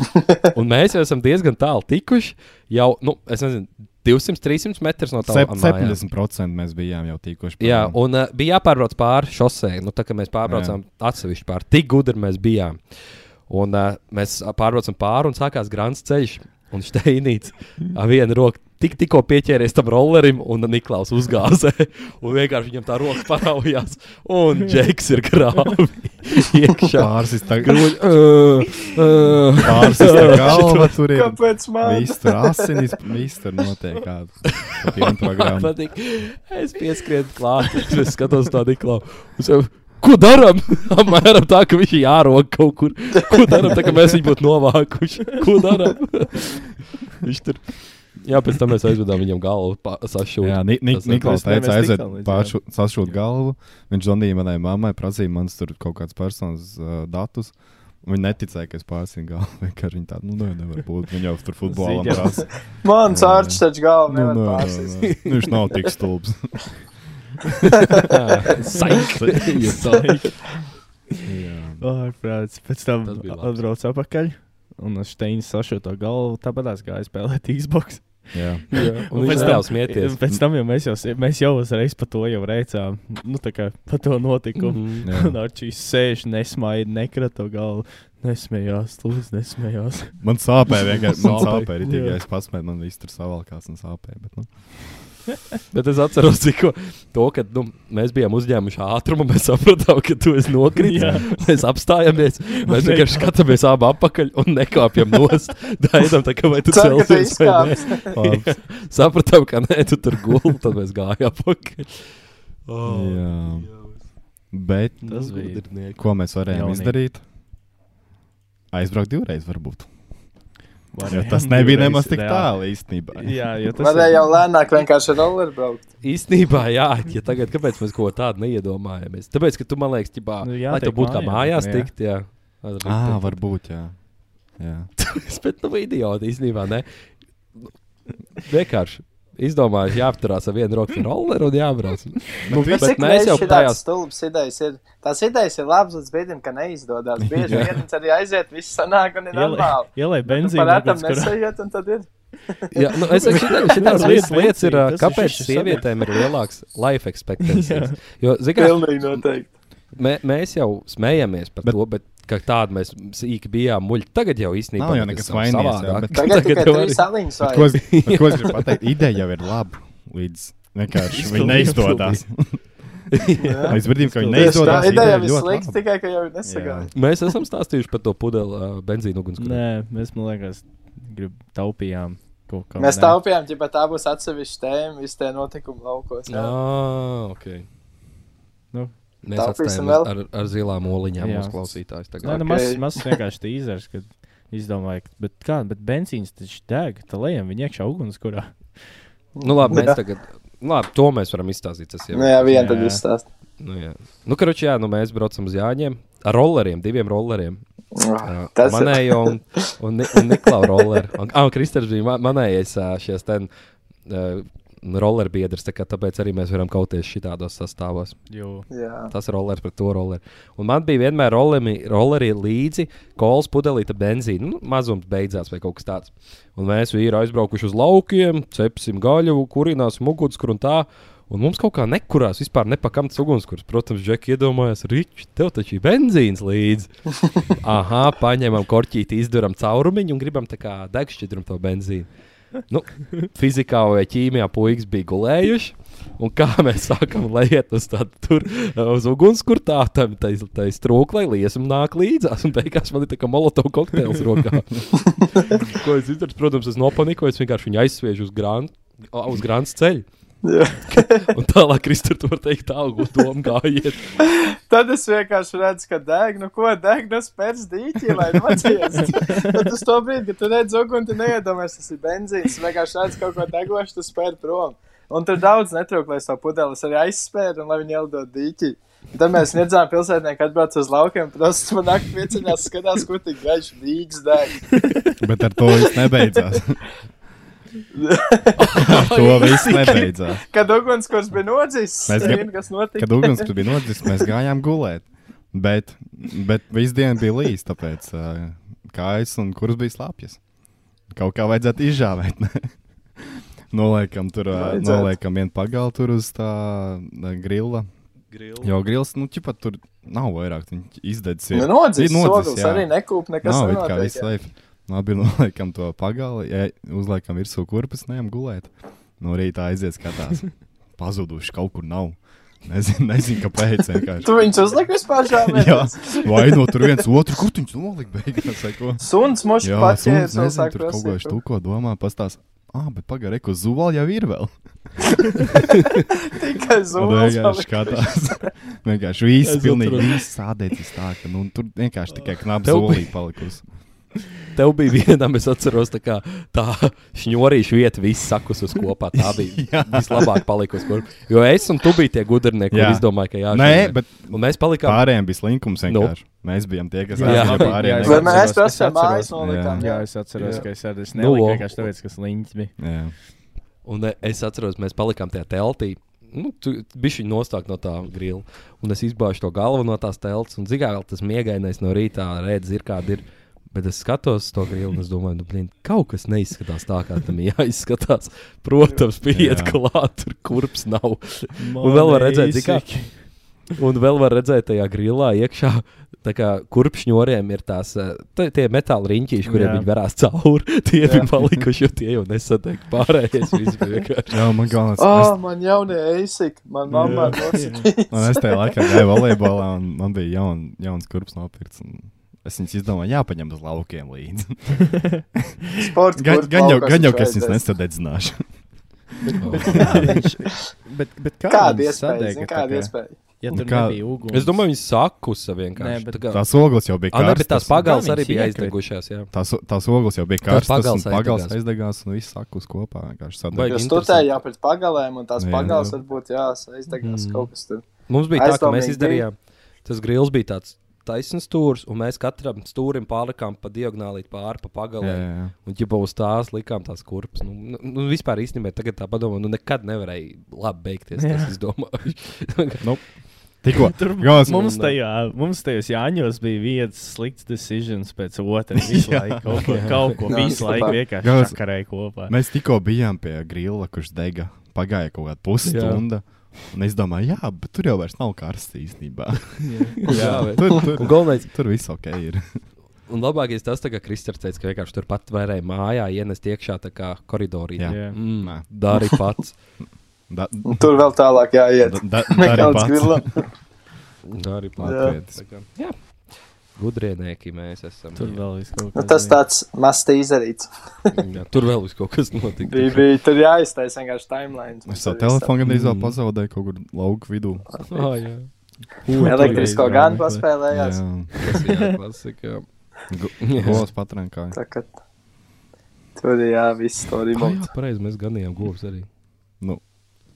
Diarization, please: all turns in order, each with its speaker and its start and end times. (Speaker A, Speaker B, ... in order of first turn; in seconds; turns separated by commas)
Speaker A: 0.3-6.0, Speaker B: 5.2-8.0, Speaker A: 7.6-12.8, Speaker B: 10.4-10.8, Speaker A: 13.5-30.9, Speaker B: 26.9-27.8, Speaker B: 29.6-35.7, Speaker C: 30.5-32.9, Speaker A: 34.6-51.2, Speaker B: 50.4-66.7, Speaker D: 51.0-52.6, Speaker D: 61.6-62.5, Speaker C: 62.8-65.1, Speaker A: 65.0-65.5, Speaker B: 67.5-67.8, Speaker A: 67.9-70.2, Speaker B: 68.9-69.6, Speaker D: 69.7-70.4, Speaker B: 71.2-71.8, Speaker D: 71.8-90.2, Speaker A: 73.0-73.6, Speaker B: 78.3-78.7, Speaker A: 78.7-80.2, Speaker A: 84.6-85.0, Speaker B: 85.0-85.4, Speaker B: 90.2-94.8, Speaker A: 91.2-91.6, Speaker D: 91.2-92.2, Speaker A: 95.7-114.0, Speaker D: 100.8-101.6, Speaker B: 100.9-101.3, Speaker D: 102.5-103.3, Speaker C: 106.7-108.1, Speaker B: 108.1-108.6, Speaker B: 112.8-113.7, Speaker B: 114.5-115.2, Speaker A: 115.0-116.0, Speaker D: 115.0-115.6, Speaker B: 116.0-117.2, Speaker D: 116.5-117.0, Speaker B: 118.7-119.9, Speaker D: 120.9-124.4, Speaker B: 121.1-123.4, Speaker C: 123.8-125.8, Speaker A: 126.0-133.4, Speaker D: 130.4-131.9, Speaker B: 132.8-134.9, Speaker A: 135.0-136.9, Speaker A: 138.3-143.8, Speaker B: 142.5-143.0, Speaker C: 142.5-154.1, Speaker B: 147.3-147.7, Speaker A: 147.5-147.8, Speaker D: 149.3-151.4, Speaker A: 152.7-159.2, Speaker D: 153.1-156.0, Speaker D: 157.4-157.9, Speaker C: 158.6-159.5, Speaker A: 159.9-167.1, Speaker B: 164.8-166.5, Speaker C: 166.1-167.8, Speaker B: 167.4-172.6, Speaker A: 167.7-168.7, Speaker D: 171.1-172.2, Speaker A: 171.2-172.2, Speaker A: 173.1-173.8, Speaker C: 173.4-173.8, Speaker B: 173.7-175.8, Speaker D: 173.9-175.2, Speaker C: 174.3-176.9, Speaker B: 176.4-176.9, Speaker A: 176.9-179.6, Speaker D: 179.4-183.2, Speaker C: 182.8-186.5, Speaker A: 186.3-187.7, Speaker A: 189.2-192.5, Speaker C: 189.3-190.1, Speaker D: 191.2-199.0, Speaker C: 192.2-193.1, Speaker A: 199.4-202.6, Speaker C: 199.4-200.0, Speaker C: 202.1-203.2, Speaker D: 202.5-203.0, Speaker A: 203.6-207.6, Speaker C: 207.9-209.3, Speaker A: 208.2-213.5, Speaker A: 214.1-218.2, Speaker D: 218.3-218.7, Speaker C: 218.7-219.1, Speaker A: 219.1-236.9, Speaker A: 237.4-242.1, Speaker A: 242.7-260.0, Speaker C: 260.4-261.3, Speaker A: 260.9-264.2, Speaker C: 264.3-284.8, Speaker B: 285.2-286.8, Speaker C: 287.9-289.0, Speaker A: 288.6-290.0, Speaker B: 288.8-290.4, Speaker C: 289.6-293.5, Speaker B: 292.1-300.4, Speaker B: 301.1-307.9, Speaker C: 304.5-305.1, Speaker A: 308.3-308.7, Speaker B: 308.6-312.9, Speaker C: 311.5-314.3, Speaker B: 313.4-324.5, Speaker C: 324.2-327.0, Speaker B: 325.3-329.0, Speaker C: 329.0-331.4, Speaker B: 329.6-334.5, Speaker C: 336.2-338.3, Speaker B: 336.9-343.6, Speaker A: 339.4-340.2, Speaker A: 342.6-343.1, Speaker A: 344.5-355.1, Speaker B: 349.1-350.4, Speaker B: 352.7-358.5, Speaker A: 355.9-356.1, Speaker D: 357.1-362.7, Speaker A: 357.2-358.2, Speaker C: 358.0-360.6, Speaker B: 359.4-359.8, Speaker A: 360.4-361.9, Speaker B: 362.8-363.1, Speaker A: 363.8-394.3, Speaker B: 379.3-379.8, Speaker D: 381.6-383.5, Speaker D: 389.4-389.9, Speaker B: 391.4-391.6, Speaker B: 394.3-395.4, Speaker C: 395.0-399.4, Speaker D: 396.9-397.9, Speaker B: 398.1-404.8, Speaker C: 405.8-407.6, Speaker B: 406.1-408.4, Speaker B: 409.3-410.2, Speaker A: 409.3-410.1, Speaker D: 409.6-414.6, Speaker C: 411.5-413.2, Speaker B: 413.5-414.0, Speaker A: 414.3-416.4, Speaker D: 415.8-416.2, Speaker B: 416.3-417.9, Speaker A: 417.1-419.3, Speaker D: 417.8-418.8, Speaker B: 419.3-423.8, Speaker A: 420.4-421.6, Speaker A: 423.5-424.4, Speaker C: 423.7-429.2, Speaker B: 425.4-426.0, Speaker A: 427.0-427.5, Speaker A: 428.1-442.9, Speaker B: 435.0-435.5, Speaker D: 441.2-441.5, Speaker B: 442.8-444.6, Speaker D: 443.8-452.3, Speaker A: 444.4-444.9, Speaker B: 448.8-450.0, Speaker A: 449.6-450.2, Speaker C: 450.3-451.0, Speaker B: 451.2-462.4, Speaker A: 455.6-456.0, Speaker D: 459.6-460.0, Speaker A: 460.0-461.5, Speaker A: 463.1-469.6, Speaker B: 467.8-468.7, Speaker D: 467.9-468.2, Speaker B: 470.3-470.9, Speaker C: 470.6-473.5, Speaker B: 471.8-473.3, Speaker A: 474.2-475.9, Speaker B: 474.8-475.4, Speaker C: 474.8-475.1, Speaker A: 476.7-478.4, Speaker D: 478.1-479.4, Speaker C: 478.9-480.7, Speaker A: 481.1-483.1, Speaker C: 482.7-485.5, Speaker B: 484.9-487.7, Speaker D: 485.7-486.0, Speaker A: 485.8-486.0, Speaker C: 487.7-488.1, Speaker A: 487.9-488.5, Speaker A: 489.0-489.8, Speaker D: 489.1-490.5, Speaker C: 489.2-491.0, Speaker B: 490.7-491.3, Speaker A: 491.4-492.6, Speaker B: 493.1-494.6, Speaker A: 493.4-493.8, Speaker C: 494.5-494.9, Speaker C: 496.2-497.7, Speaker A: 497.3-499.1